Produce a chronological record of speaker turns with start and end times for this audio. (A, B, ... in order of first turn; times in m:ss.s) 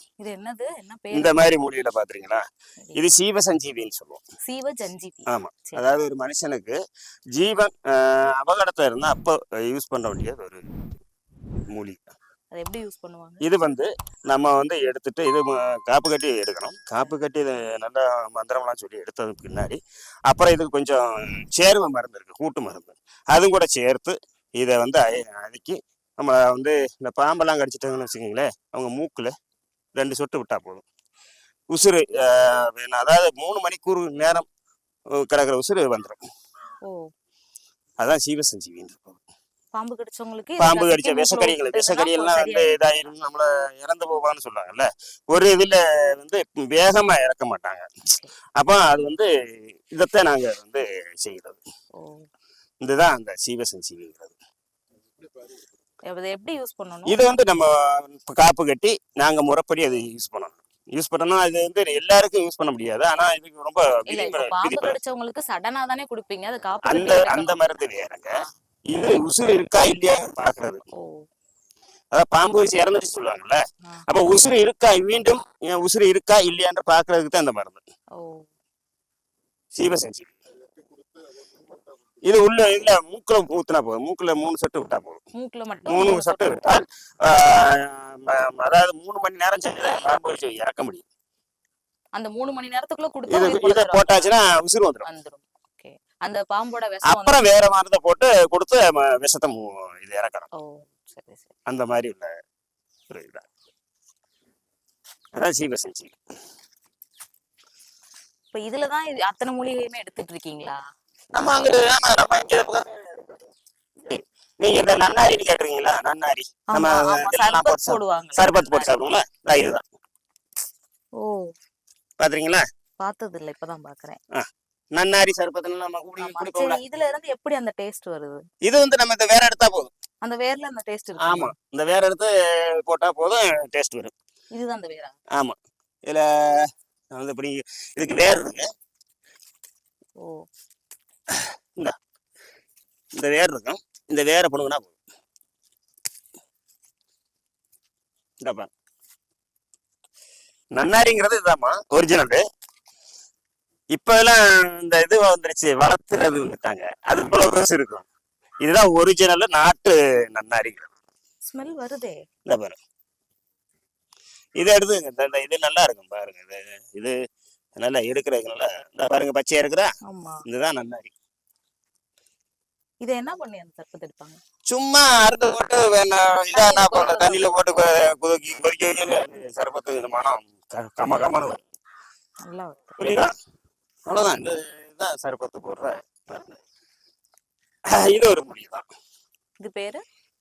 0:00.2-0:01.3 A
0:01.1-0:02.4 B
0:02.9-0:04.2 B
0:04.4-0:05.8 A
0:05.3-0:06.8 B
0:07.3-0:10.7 B
0:11.7-0:12.1 B
0:12.5-0:13.4 A
0:13.4-0:29.3 B
0:30.0-0:30.8 B
0:31.7-0:34.4 B
0:35.2-0:36.2 B
0:38.0-0:39.2 B
0:39.7-0:42.7 A
0:40.6-0:47.9 B
0:48.6-0:49.3 B
0:49.9-0:51.6 B
0:52.0-0:52.3 A
0:52.8-0:54.3 B
0:56.1-0:57.2 A
0:57.1-1:04.9 B
1:04.1-1:07.7 A
1:06.8-1:08.3 B
1:08.9-1:10.8 B
1:10.9-1:11.2 A
1:12.1-1:17.8 B
1:18.1-1:18.4 A
1:19.7-1:20.3 B
1:22.2-1:25.2 B
1:25.3-1:26.6 A
1:25.9-1:31.0 B
1:32.1-1:34.3 A
1:33.3-1:35.0 B
1:35.0-1:37.4 A
1:37.0-1:40.5 B
1:40.5-1:41.5 A
1:41.7-1:42.3 B
1:43.1-1:43.5 B
1:45.4-1:46.1 B
1:48.5-1:50.8 A
1:51.3-1:53.5 B
1:54.0-1:59.8 B
1:56.7-1:58.9 A
2:01.2-2:01.5 A
2:02.2-2:02.6 B
2:03.0-2:04.2 A
2:04.3-2:06.8 B
2:06.2-2:08.4 A
2:08.6-2:09.9 B
2:10.2-2:11.5 A
2:11.2-2:14.1 B
2:14.5-2:15.2 A
2:16.1-2:18.6 B
2:20.2-2:20.4 A
2:21.3-2:21.9 B
2:23.1-2:24.9 B
2:28.4-2:28.7 B
2:30.7-2:32.4 B
2:33.9-2:38.1 B
2:38.6-2:40.9 B
2:41.5-2:42.2 A
2:42.4-2:42.8 B
2:44.6-2:47.1 B
2:47.8-2:49.9 B
2:50.0-2:50.4 A
2:50.4-2:51.1 B
2:53.0-2:54.4 A
2:54.7-3:01.6 B
2:56.5-2:57.4 A
3:02.5-3:03.0 A
3:03.0-3:03.3 B
3:04.1-3:06.6 B
3:07.9-3:08.9 B
3:09.6-3:10.0 A